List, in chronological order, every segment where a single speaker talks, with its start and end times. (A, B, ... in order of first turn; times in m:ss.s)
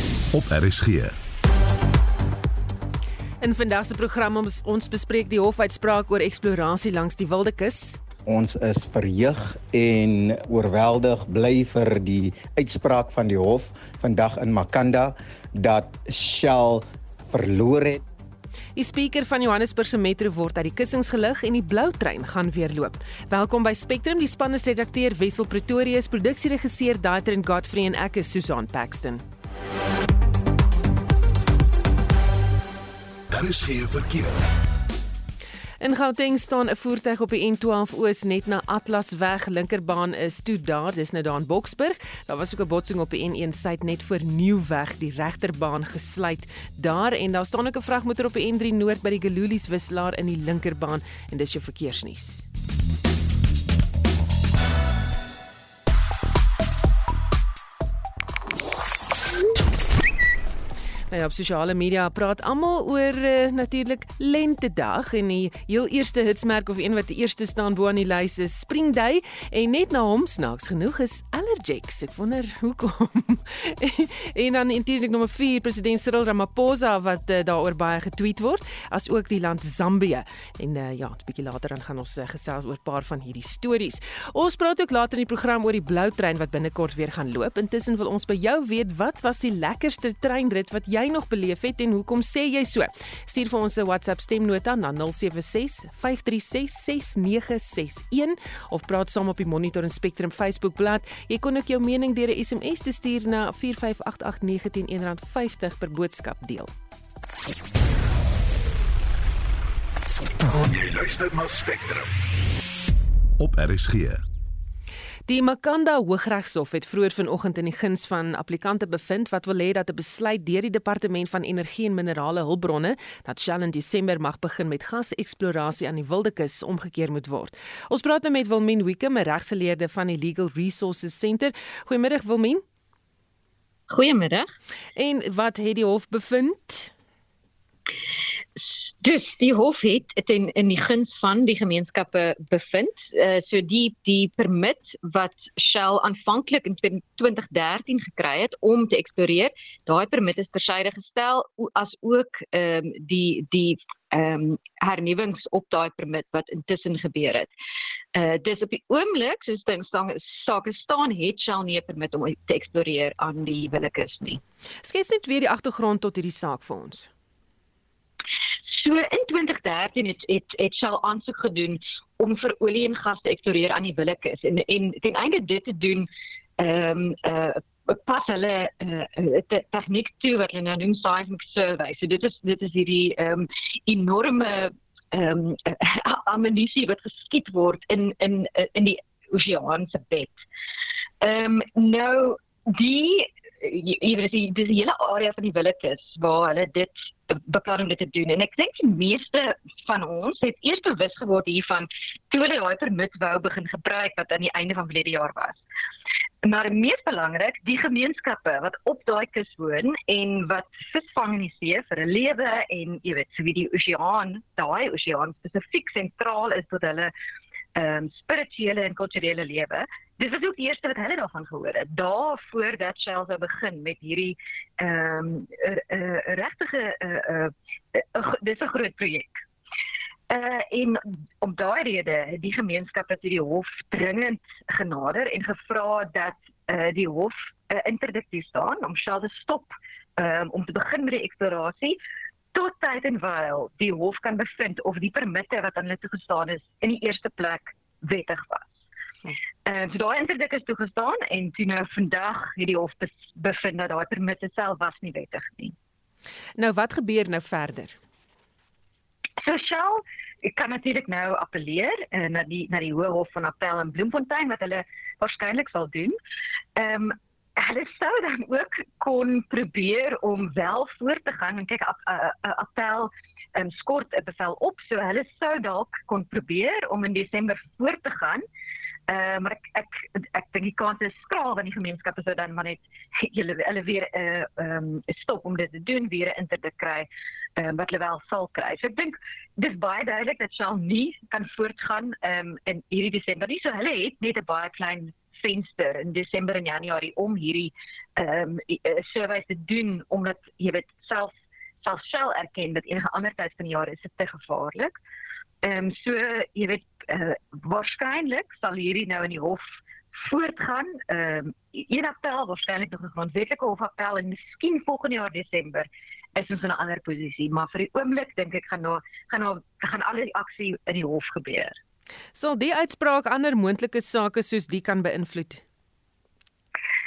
0:00.3-0:01.2 A
0:03.4-0:08.0 B
0:08.3-0:18.0 C
0:18.8-0:29.2 B
0:33.3-0:34.4 A
0:35.8-0:52.4 B
1:01.1-1:46.7 B
1:50.6-1:52.1 A
1:53.4-1:54.2 A
1:55.3-2:12.6 B
2:13.9-2:14.5 D
2:15.0-2:16.9 B
2:18.6-2:37.5 D
2:38.1-2:44.4 D
2:44.8-2:47.1 B
2:48.6-2:56.1 D
2:56.6-3:10.4 D
3:11.2-3:25.6 D
3:26.4-3:37.1 D
3:37.7-3:49.4 D
3:50.3-4:02.0 D
4:02.5-4:08.8 D
4:09.6-4:15.7 D
4:16.6-4:18.0 B
4:19.4-4:26.2 D
4:26.8-4:38.4 D
4:39.1-5:04.9 D
5:05.6-5:09.6 D
5:10.2-5:21.8 D
5:22.4-5:25.6 B